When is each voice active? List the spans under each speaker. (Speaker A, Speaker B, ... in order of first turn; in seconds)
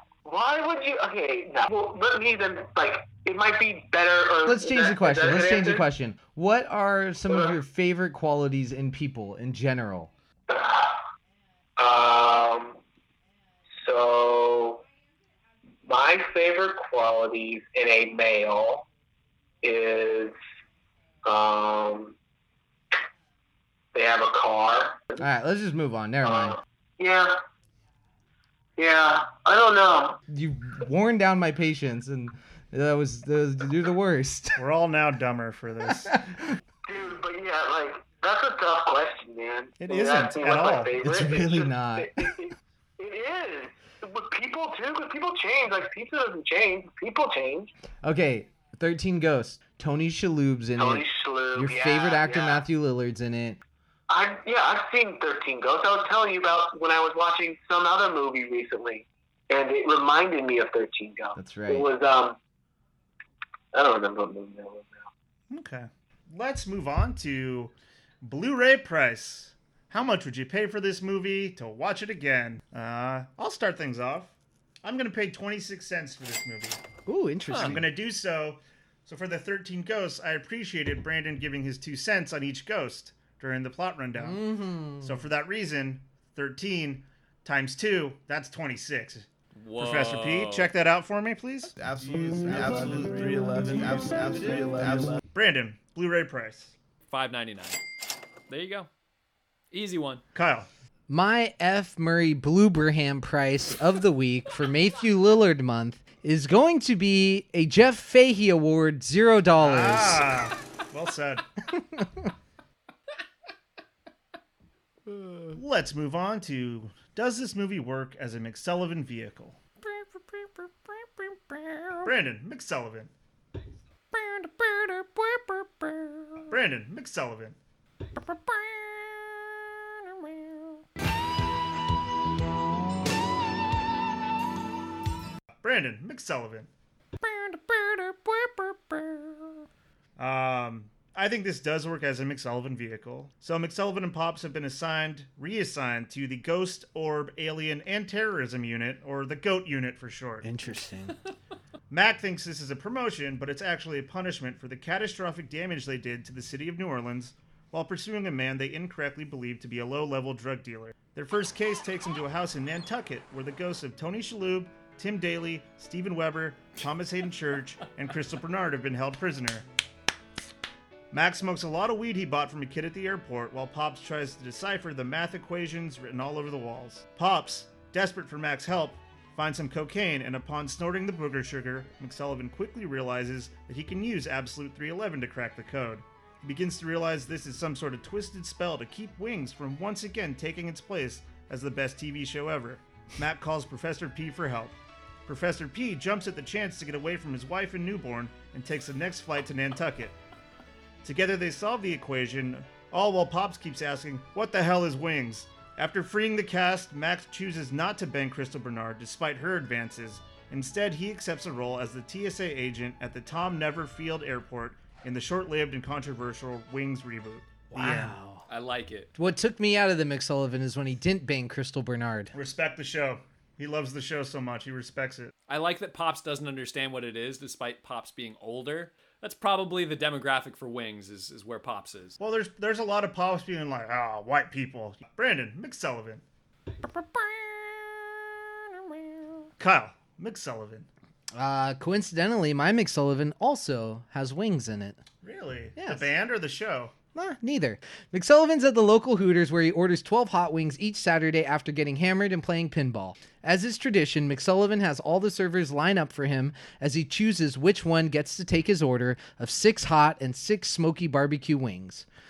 Speaker A: 0.2-5.8, 7.3-7.5, 10.5-11.0, 11.8-12.8, 13.8-14.8, 15.8-18.9, 19.6-20.4, 21.2-22.1, 23.9-25.1, 26.2-27.4, 28.8-30.2, 36.9-47.7, 50.8-52.6, 54.1-62.4, 63.7-65.1
Speaker B: 4.5-10.1, 25.2-26.6, 30.3-34.6, 41.0-42.1, 48.0-53.6, 61.4-61.9, 77.1-77.9, 84.2-85.2, 101.1-110.3, 111.7-112.3, 150.4-151.2, 217.7-218.5, 219.2-222.3, 241.3-245.0, 245.8-246.1, 247.2-262.1
Speaker C: 34.6-36.2, 39.8-41.0, 65.5-76.8, 77.6-84.4, 85.0-89.3, 89.8-91.8, 92.8-93.4, 94.3-96.7, 100.3-100.7, 109.6-111.4, 115.5-119.6, 122.0-123.1, 126.5-127.6, 135.6-136.7, 140.2-150.5, 151.9-169.7, 171.1-194.8, 195.3-200.2, 201.0-218.1, 222.3-225.3, 232.2-236.2, 239.6-240.9, 245.2-246.9
Speaker D: 77.5-77.8, 89.5-90.7, 97.1-97.8, 98.5-98.9, 99.7-100.2, 218.5-219.1, 225.5-232.2
Speaker E: 91.8-95.2